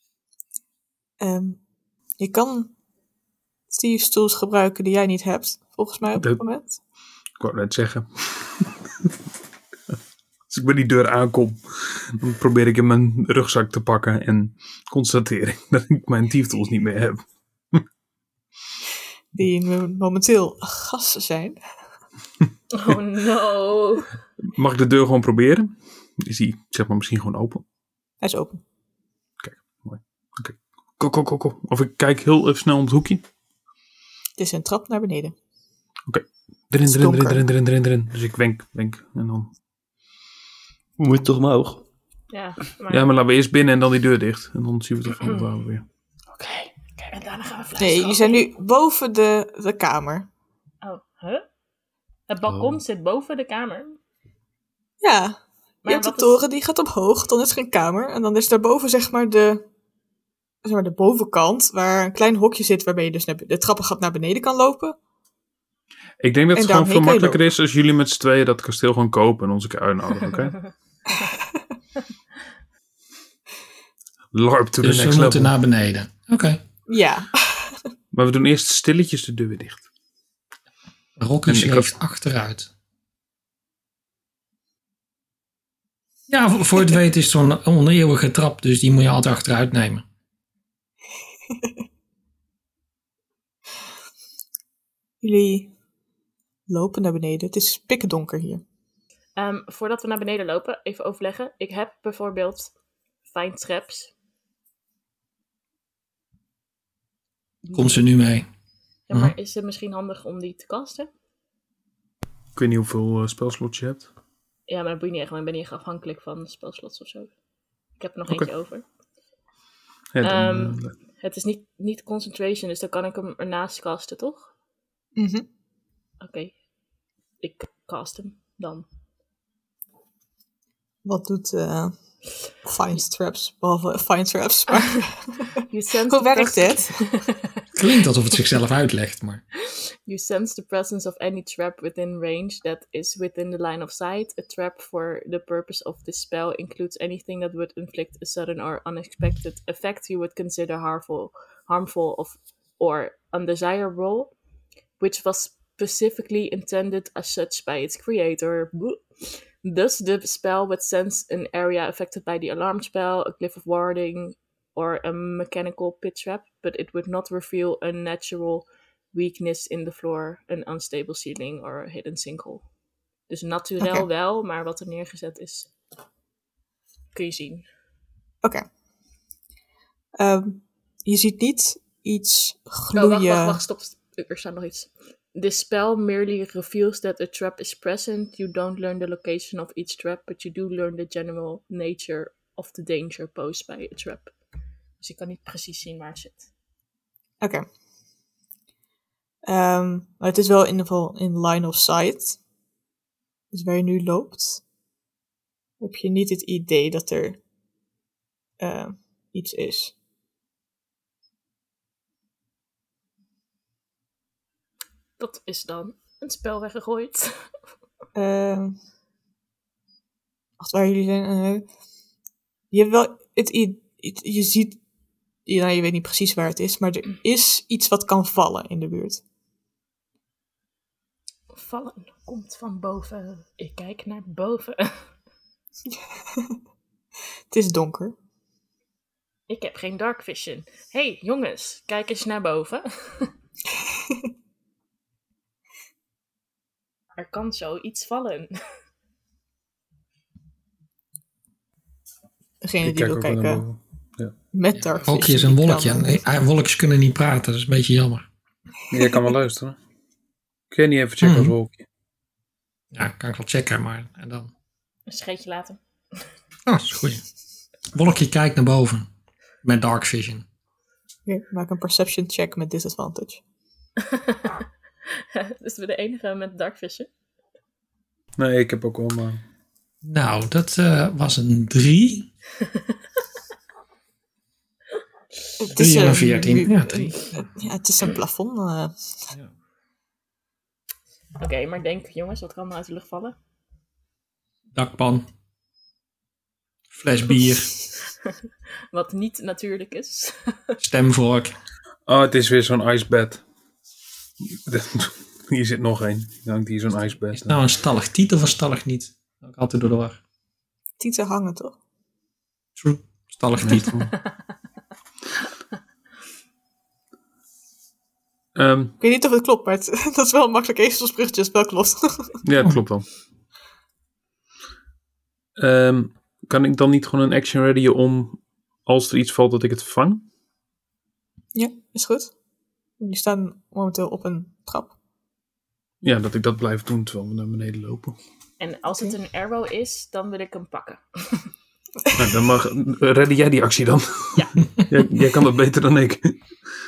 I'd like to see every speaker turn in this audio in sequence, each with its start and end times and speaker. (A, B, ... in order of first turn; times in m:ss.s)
0:01.2-0:01.6 A
0:02.2-0:02.7 A
0:03.7-0:06.8 A
0:07.4-0:09.1 B
0:10.5-0:17.8 B
0:19.3-0:21.6 A
0:22.7-0:24.1 C
0:24.5-0:27.6 B
0:28.2-0:28.6 A
0:29.4-0:33.2 B
0:34.4-0:35.3 A
0:36.1-0:39.5 B
0:36.8-0:37.4 A
0:41.0-0:41.8 D
0:42.3-0:43.1 C
0:42.9-0:45.8 B
0:46.3-0:47.1 D
0:47.1-0:48.5 C
0:47.8-0:50.3 A
0:50.8-0:51.4 C
0:52.3-0:54.0 C
0:52.5-0:52.8 D
0:55.0-0:59.6 A
0:55.8-0:56.4 C
1:00.6-1:05.0 A
1:06.2-1:10.7 B
1:06.5-1:07.4 A
1:14.3-1:15.5 B
1:14.8-1:16.6 E
1:16.9-1:17.8 A
1:18.1-1:19.9 B
1:21.2-1:22.7 E
1:21.4-1:21.9 B
1:26.3-1:30.0 E
1:35.2-1:35.7 A
1:36.7-1:38.6 A
1:39.4-1:42.7 C
1:43.2-1:44.1 C
1:47.6-1:48.1 C
1:47.7-1:48.5 E
1:49.1-1:51.1 C
1:52.5-1:54.1 B
1:54.7-1:57.3 C
1:58.0-1:58.8 C
2:00.1-2:00.9 B
2:00.2-2:04.5 C
2:05.2-2:05.5 A
2:06.2-2:06.5 C
2:07.4-2:08.8 C
2:11.0-2:11.9 A
2:12.6-2:15.5 A
2:15.7-2:17.6 C
2:16.1-2:17.0 A
2:17.7-2:19.4 E
2:19.7-2:34.3 C
2:35.0-2:52.6 C
2:53.3-2:55.7 C
2:53.8-2:54.0 A
2:57.1-2:57.6 C
3:00.2-3:03.6 A
3:02.9-3:14.3 C
3:15.0-3:16.5 C
3:19.5-3:22.4 A
3:23.5-3:24.6 A
3:25.8-3:27.4 A
3:28.6-3:29.9 A
3:35.2-3:37.5 C
3:38.1-3:38.8 A
3:40.6-3:41.6 A
3:42.7-3:44.8 A
3:45.4-3:49.2 A
3:51.5-3:55.0 C
3:57.5-3:58.1 A
3:59.5-4:03.3 C
4:07.2-4:08.5 C
4:12.6-4:13.6 A
4:12.8-4:14.3 B
4:14.5-4:16.2 A
4:15.0-4:18.2 E
4:18.9-4:19.8 B
4:20.7-4:21.8 B
4:21.2-4:21.5 E
4:22.9-4:24.5 E
4:25.1-4:25.8 C
4:26.7-4:27.2 E
4:27.9-4:29.1 E
4:29.6-4:30.4 E
4:31.2-4:33.4 A
4:34.1-4:34.6 C
4:35.3-4:37.1 C
4:38.4-4:39.4 B
4:40.0-4:42.3 E
4:45.6-4:48.9 A
4:45.7-4:47.2 E
4:51.4-4:53.4 C
4:54.7-4:55.2 E
4:56.9-4:57.8 E
4:58.1-4:58.3 C
4:58.9-5:00.8 C
5:00.8-5:01.5 E
5:02.0-5:03.4 B
5:04.5-5:07.6 B
5:07.3-5:10.2 E
5:11.0-5:11.8 A
5:12.8-5:14.0 E
5:13.6-5:14.1 B
5:18.5-5:19.0 B
5:19.0-5:22.4 A
5:22.4-5:23.0 B
5:25.6-5:30.2 B
5:31.5-5:32.3 A
5:33.0-5:34.9 A
5:36.0-5:38.2 B
5:38.6-5:41.4 C
5:42.2-5:46.4 B